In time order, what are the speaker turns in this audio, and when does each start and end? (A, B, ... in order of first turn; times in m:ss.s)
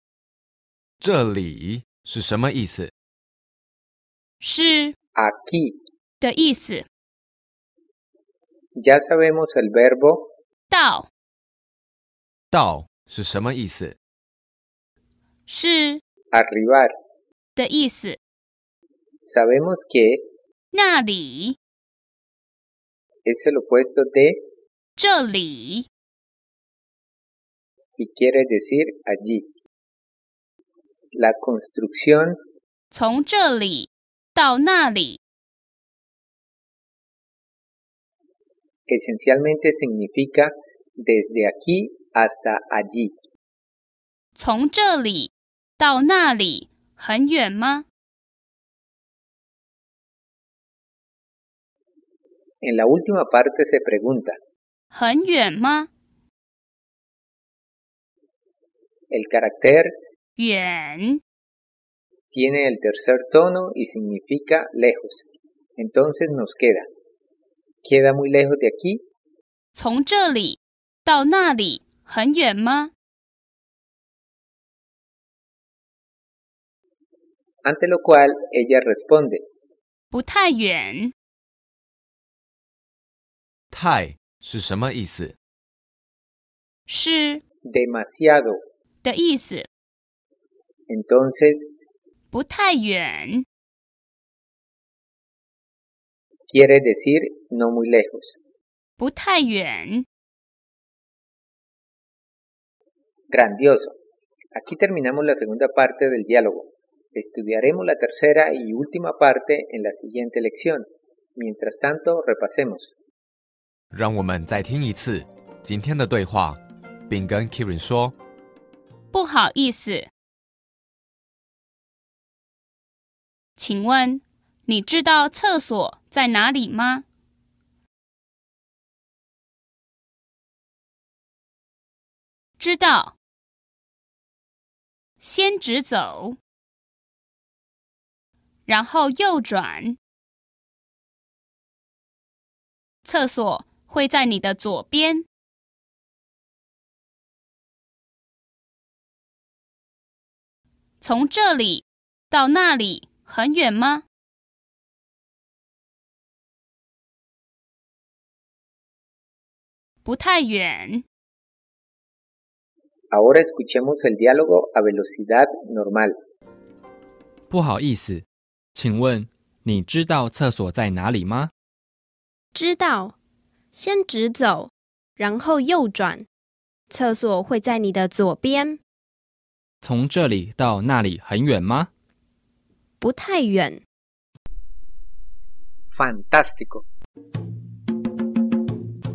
0:01.0-0:02.9 A
0:04.4-0:04.9 B
0:05.2-0:05.8 C
0:06.2-0:06.8 B
0:08.8-0:10.3 C
0:10.7-0:11.1 B
0:12.5-0:14.0 A
0:15.5-0:16.0 B
0:16.3-0:16.9 C
0:17.6-0:18.2 B
0:19.2-0:20.2 C
0:20.7-0:21.6 B
0:23.2-0:24.4 C
0:25.0-0:25.9 B
0:28.0-0:29.4 C
0:31.1-0:32.4 C
0:32.9-0:35.2 B
0:38.9-0:43.1 C
0:44.4-0:47.8 B
0:52.6-0:54.3 C
0:54.9-0:55.9 B
0:59.1-0:59.9 C
1:00.4-1:01.2 B
1:02.3-1:05.2 C
1:05.8-1:06.8 C
1:07.8-1:09.0 C
1:09.7-1:12.9 B
1:17.6-1:19.4 C
1:20.1-1:21.1 B
1:23.7-1:25.4 A
1:26.9-1:27.4 B
1:27.6-1:28.6 C
1:29.0-1:29.6 B
1:30.9-1:31.7 C
1:32.3-1:33.4 B
1:36.5-1:38.4 C
1:39.0-1:40.0 B
1:43.3-1:44.0 C
1:44.5-1:52.9 C
1:53.9-1:58.1 A
1:59.1-2:00.1 B
2:03.6-2:07.0 B
2:12.6-2:13.2 B
2:15.2-2:16.4 B
2:18.6-2:20.0 B
2:23.0-2:25.2 B
2:31.0-2:34.0 B
2:40.0-2:41.0 B
2:43.1-2:46.1 C
2:47.5-2:51.5 D
2:52.5-2:53.1 E
2:53.7-2:56.3 E
2:56.9-2:58.8 E
2:59.8-3:01.9 D
3:03.0-3:03.8 E
3:05.9-3:06.8 C